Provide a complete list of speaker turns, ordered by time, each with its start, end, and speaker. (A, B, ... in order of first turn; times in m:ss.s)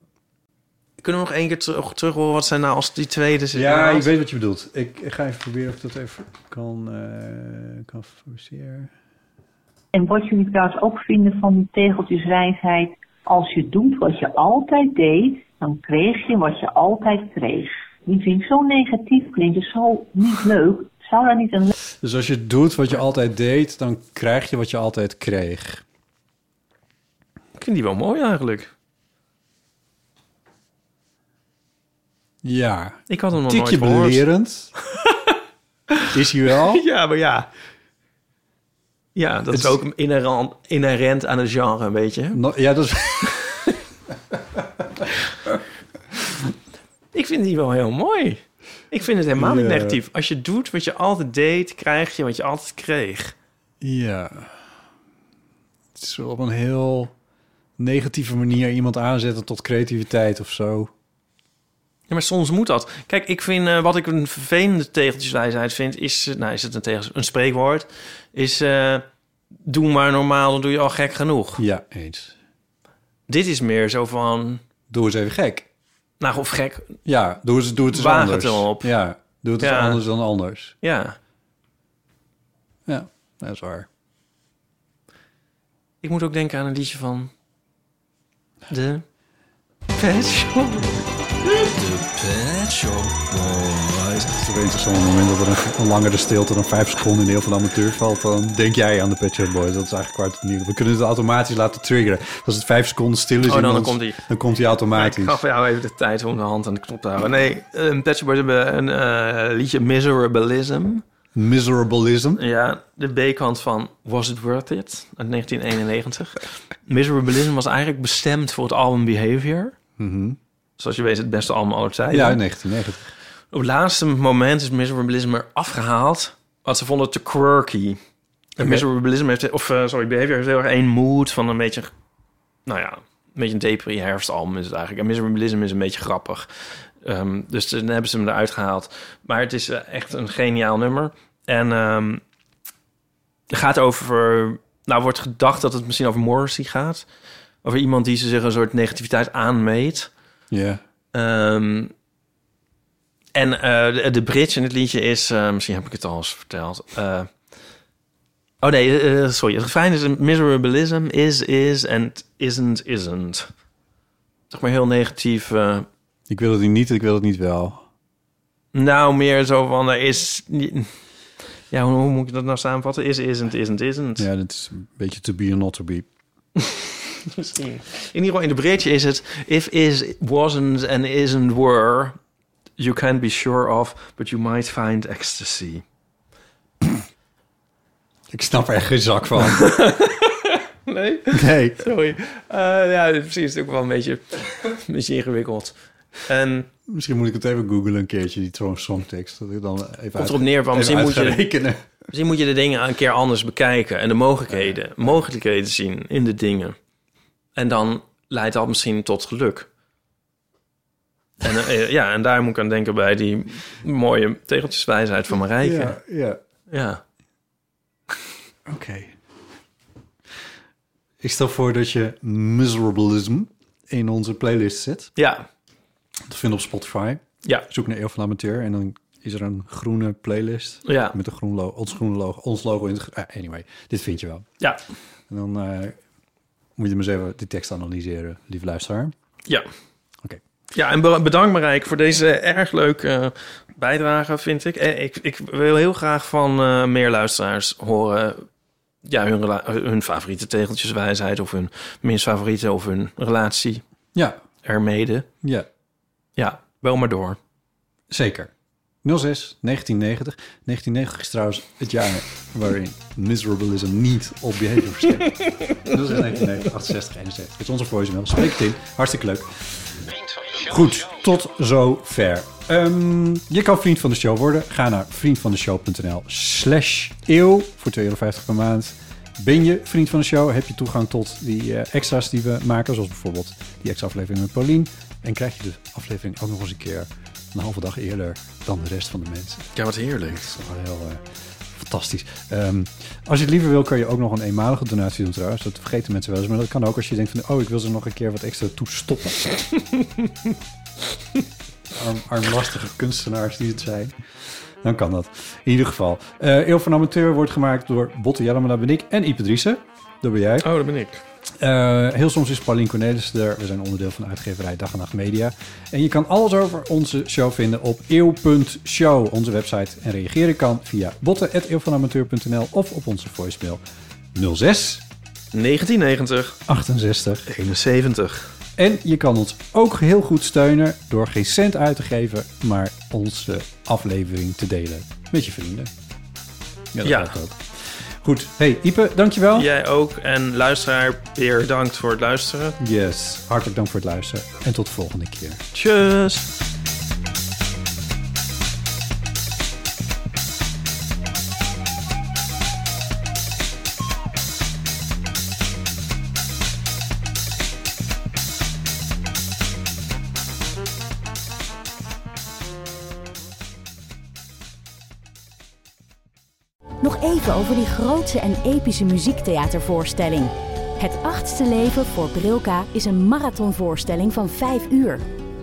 0:01.0-0:04.1 A
0:03.5-0:08.9 B
0:09.9-0:21.7 C
0:22.0-0:25.8 B
0:27.6-0:28.7 A
0:32.4-0:34.7 B
0:33.1-0:34.2 A
0:34.8-0:35.4 A
0:36.1-0:36.8 B
0:36.6-0:37.5 A
0:39.2-0:42.4 A
0:39.5-0:39.8 B
0:42.3-0:43.6 B
0:47.1-0:53.3 A
0:49.4-0:50.0 B
0:53.8-0:54.6 B
0:56.0-0:57.1 B
0:57.8-1:00.9 B
1:02.1-1:09.0 A
1:09.6-1:11.6 A
1:11.6-1:12.3 B
1:13.3-1:14.6 A
1:14.9-1:15.7 B
1:16.2-1:16.9 A
1:17.1-1:20.7 B
1:17.9-1:18.9 A
1:19.6-1:20.0 A
1:20.8-1:21.2 A
1:22.9-1:23.9 B
1:26.0-1:27.3 A
1:28.7-1:29.0 A
1:29.9-1:31.8 A
1:31.7-1:45.4 B
1:43.5-1:44.2 A
1:44.9-1:51.0 A
1:51.4-1:52.4 B
1:52.4-1:59.8 A
2:00.0-2:00.4 B
2:00.8-2:02.4 A
2:02.1-2:03.1 B
2:03.5-2:08.0 A
2:08.6-2:11.9 A
2:08.6-2:08.8 B
2:12.7-2:16.5 A
2:17.0-2:22.2 A
2:23.5-2:27.0 A
2:27.6-2:30.1 A
2:30.5-2:30.8 B
2:31.1-2:31.9 A
2:33.4-2:37.3 A
2:38.6-2:43.5 A
2:44.5-2:45.9 A
2:46.3-2:47.8 B
2:48.7-2:50.9 A
2:51.7-2:54.3 A
2:54.2-2:56.1 B
2:57.3-3:02.2 A
3:02.8-3:05.8 A
3:08.3-3:09.7 B
3:09.5-3:15.7 A
3:11.3-3:11.8 B
3:16.2-3:16.7 A
3:16.9-3:21.8 B
3:20.2-3:21.5 A
3:22.1-3:26.8 A
3:24.5-3:24.8 B
3:27.6-3:29.7 A
3:31.4-3:36.0 A
3:35.6-3:36.4 B
3:36.7-3:37.0 A
3:38.7-3:39.2 B
3:41.2-3:45.1 B
3:45.2-3:45.4 A
3:46.3-3:54.5 B
3:50.9-3:51.2 A
3:55.3-3:56.0 B
3:56.8-3:59.1 B
4:00.7-4:08.4 A
4:09.0-4:13.8 A
4:14.2-4:14.4 B
4:14.6-4:15.3 A
4:15.4-4:15.7 B
4:16.4-4:17.4 A
4:18.1-4:18.5 B
4:19.0-4:29.8 B
4:30.4-4:49.7 B
4:49.8-4:50.4 A
4:50.3-4:59.5 B
5:01.9-5:04.1 B
5:04.8-5:10.7 B
5:10.6-5:11.2 A
5:11.6-5:23.8 B
5:24.4-5:25.0 B
5:25.5-5:26.6 A
5:26.7-5:27.5 B
5:27.5-5:28.5 A
5:28.8-5:35.9 B
5:36.9-5:39.7 B
5:37.0-5:37.4 A
5:39.6-5:42.8 A
5:42.8-5:45.6 B
5:45.7-5:46.5 A
6:07.0-6:15.2 D